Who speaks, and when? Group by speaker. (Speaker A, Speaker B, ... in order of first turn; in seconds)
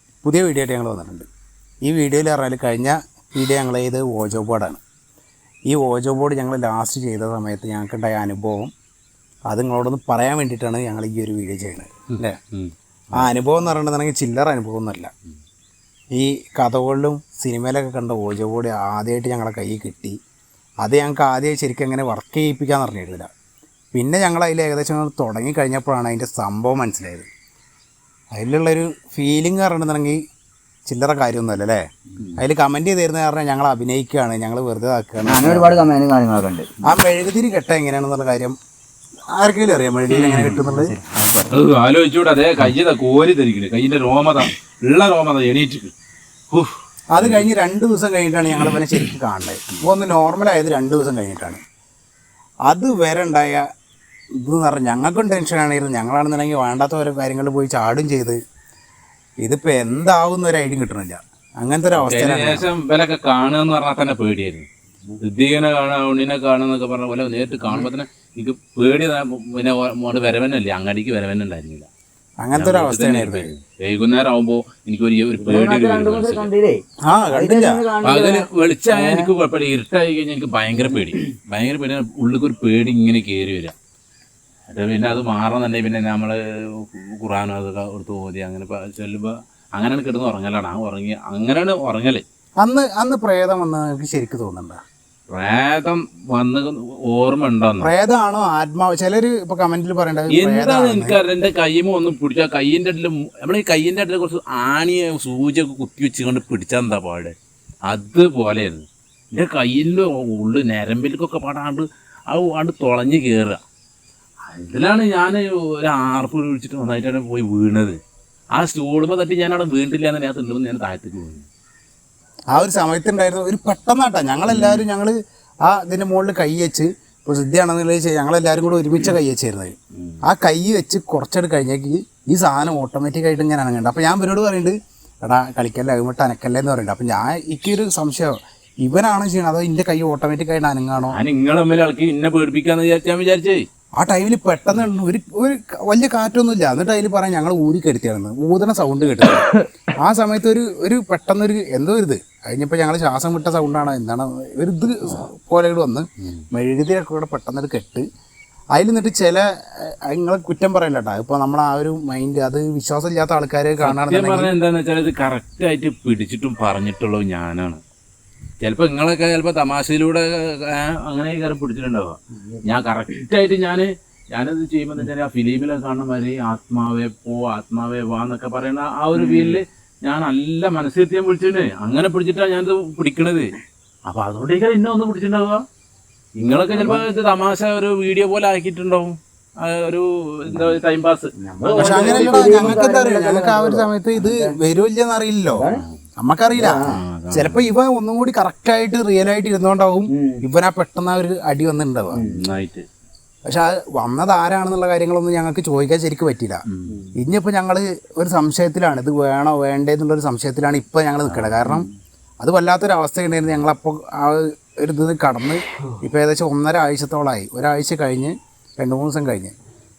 Speaker A: 0.2-1.2, 1.8-4.8, 5.7-8.7, 9.5-12.4, 13.1-15.1, 16.1-20.1, 20.8-23.3, 23.9-27.3, 28.3-30.2, 30.9-31.8, 32.4-35.9, 36.8-38.5, 39.4-40.9, 47.1-51.6, 52.7-53.6, 54.4-58.4, 59.4-62.7, 72.4-73.5, 77.0-77.8, 92.6-94.8, 97.8-101.2, 122.5-125.1, 125.7-129.7, 130.2-141.2, 144.0-158.0, 158.7-164.5, 191.7-195.7, 196.2-202.2, 203.5-206.6, 207.2-211.9, 212.4-219.5
Speaker B: 12.1-13.2, 40.1-45.9, 46.5-47.5, 61.9-64.7, 65.2-71.9, 72.5-76.5, 78.0-83.7, 84.7-92.2, 95.3-97.9, 100.3-107.3, 107.9-113.6, 114.5-117.9, 118.5-121.5, 124.5-124.8, 129.9-130.2, 141.1-143.7, 163.8-167.8, 168.6-183.5, 184.1-185.6, 186.4-192.8, 195.6-196.0, 196.8-197.7, 202.2-202.8, 206.7-207.1, 211.2-211.8
Speaker C: 35.2-36.7, 75.4-79.3, 179.2-179.6, 186.7-187.0, 191.4-194.6, 195.6-195.8, 196.5-196.9, 200.1-200.4, 202.1-202.4